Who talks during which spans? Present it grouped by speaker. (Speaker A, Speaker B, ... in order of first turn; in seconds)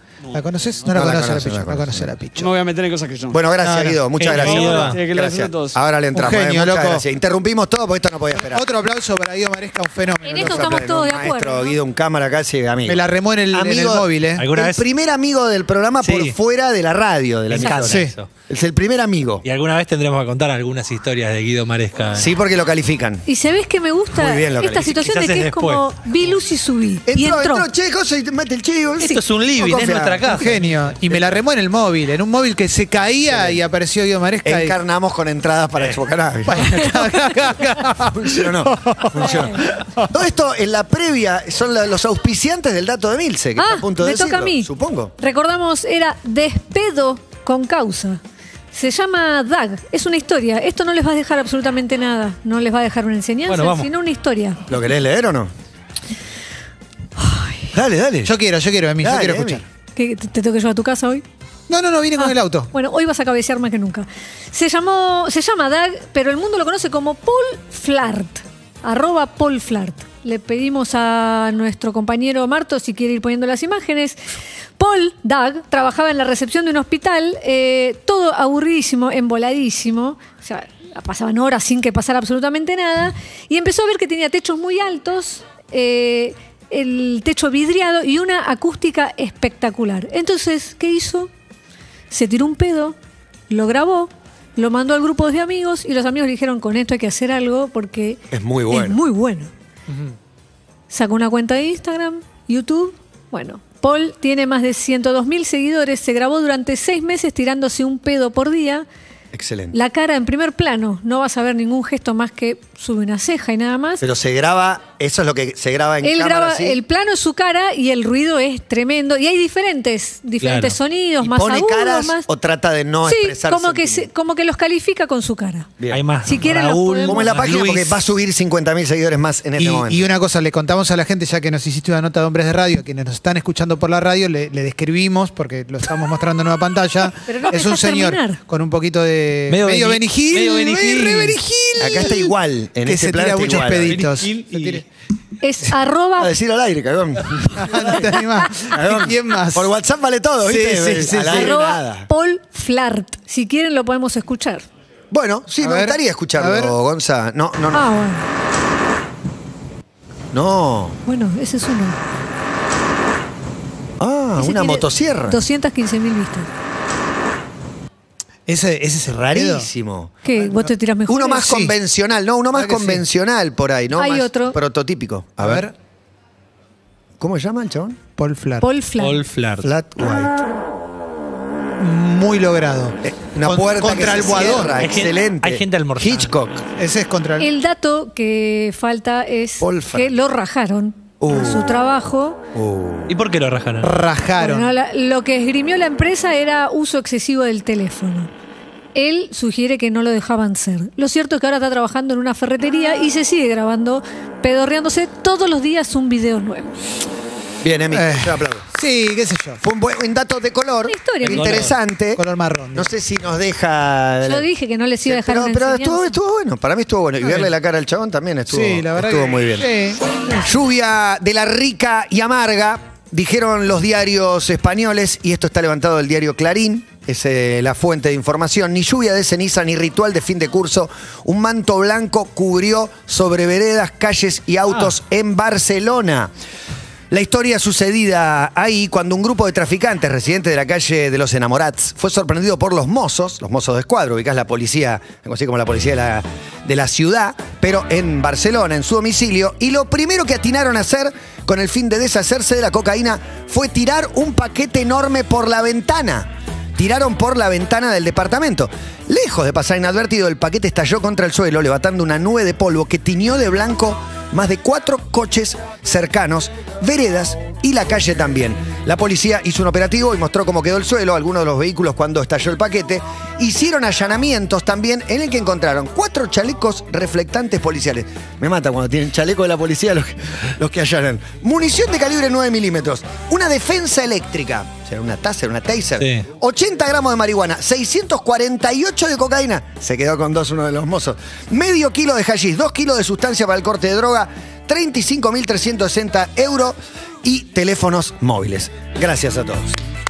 Speaker A: 0.2-1.1, 2.4-3.5, 4.2-5.8
Speaker B: 0.3-2.5, 3.6-4.0, 6.1-7.0, 8.4-10.8, 12.9-14.4, 17.7-18.1, 30.3-34.7, 36.4-40.1, 58.2-59.6, 61.7-62.7, 129.6-142.3, 142.8-144.8, 147.6-149.7, 150.4-151.6, 155.6-156.7, 168.5-169.7, 171.4-171.7, 172.5-173.0, 175.4-175.7, 178.2-178.7, 181.8-184.8, 186.8-187.5, 193.8-194.7, 207.9-209.6, 212.1-212.9, 218.5-220.0
Speaker C: 0.9-2.1, 3.3-8.6, 10.3-19.4, 22.1-23.2, 24.1-25.0, 27.1-30.5, 33.3-33.6, 34.4-36.9, 38.0-45.1, 54.7-55.5, 57.7-58.3, 59.0-59.6, 98.3-99.0, 109.3-109.7, 114.0-116.8, 121.2-124.1, 125.8-130.1, 141.8-144.1, 146.2-148.1, 148.6-152.1, 155.1-157.9, 160.3-161.0, 164.0-165.4, 169.1-170.2, 171.1-175.7, 177.2-178.0, 179.6-180.4, 183.0-186.6, 189.6-190.1, 191.2-191.8, 192.5-193.1, 207.6-208.7, 209.6-212.2, 212.7-214.5, 215.1-219.7, 220.4-236.3, 237.1-299.8
Speaker D: 4.2-5.0, 14.4-14.8, 16.0-16.4, 17.5-18.3, 19.4-22.3, 24.9-25.8, 29.0-30.8, 53.5-53.9, 120.4-120.8, 125.9-128.0, 139.5-141.4, 143.8-144.8, 179.0-179.7, 184.8-186.5, 193.1-193.9, 211.3-211.7, 286.0-286.2
Speaker E: 10.2-11.8, 23.2-27.7, 36.8-37.1, 39.2-39.5, 43.6-48.2, 48.7-54.6, 57.2-57.7, 60.0-61.2, 62.2-74.2, 74.8-91.3, 92.1-93.0, 93.5-99.5, 100.9-108.9, 109.7-114.0, 116.0-122.3, 123.1-125.7, 126.2-127.2, 137.2-138.4, 145.4-146.3, 151.2-154.7, 157.7-158.2, 161.1-162.0, 164.4-166.5, 170.2-171.5, 173.9-174.6, 178.6-179.2, 187.4-192.4, 194.4-198.3, 198.9-206.7, 210.9-211.6, 214.2-216.2